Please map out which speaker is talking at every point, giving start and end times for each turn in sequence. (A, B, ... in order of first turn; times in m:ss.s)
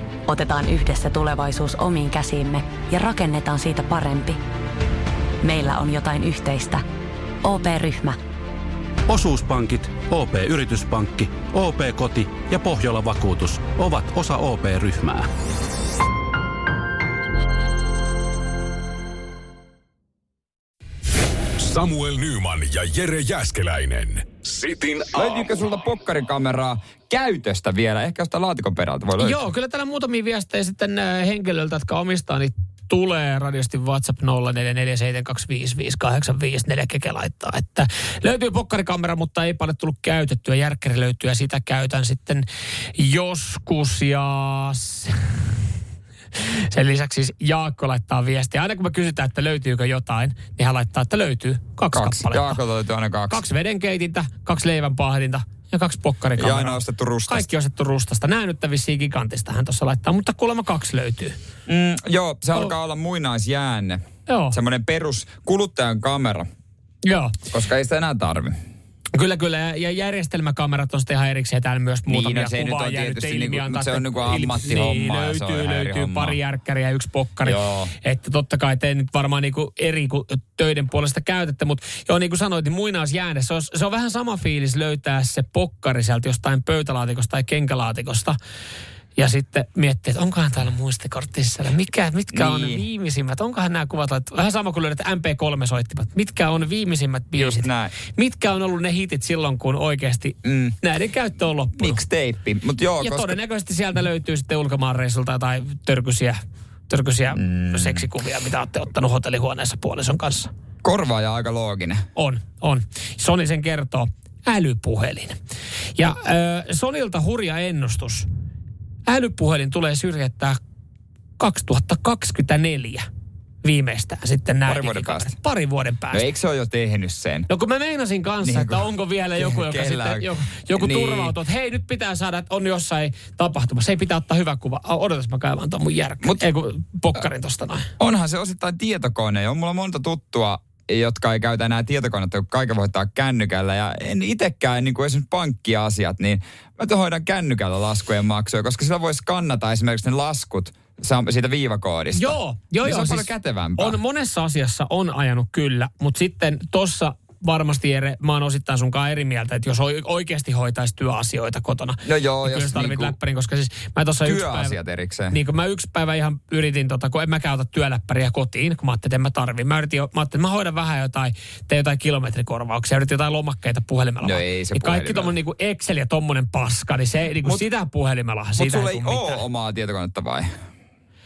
0:00.3-0:04.4 A
0:05.4-0:06.8 A
0:07.4-0:08.2 A
0:09.1-0:15.3 B
0:21.6-0:25.4 C
0:25.1-0:29.4 D
0:29.2-0:45.2 E
0:46.4-0:52.6 E
0:51.9-0:53.4 D
0:53.3-1:01.4 E
0:56.4-0:57.5 D
1:01.7-1:06.4 D
1:04.3-1:04.6 E
1:07.0-1:07.4 E
1:07.5-1:08.6 D
1:09.1-1:28.4 E
1:12.1-1:16.4 D
1:17.4-1:17.9 D
1:29.2-1:42.0 E
1:32.3-1:32.8 D
1:37.3-1:37.9 D
1:40.4-1:40.8 D
1:41.7-1:43.4 D
1:43.0-1:50.5 E
1:47.4-1:48.0 D
1:50.8-1:52.0 D
1:52.1-1:55.4 E
1:55.9-1:58.3 E
1:59.0-2:00.6 E
2:01.4-2:03.1 E
2:03.6-2:06.3 E
2:04.7-2:05.4 D
2:06.1-2:07.5 D
2:07.5-2:17.9 E
2:08.4-2:11.4 D
2:18.0-2:34.0 D
2:32.1-2:44.8 E
2:42.0-2:43.2 D
2:44.2-2:45.4 D
2:45.3-2:59.4 E
2:54.2-2:55.3 D
2:58.6-3:00.5 D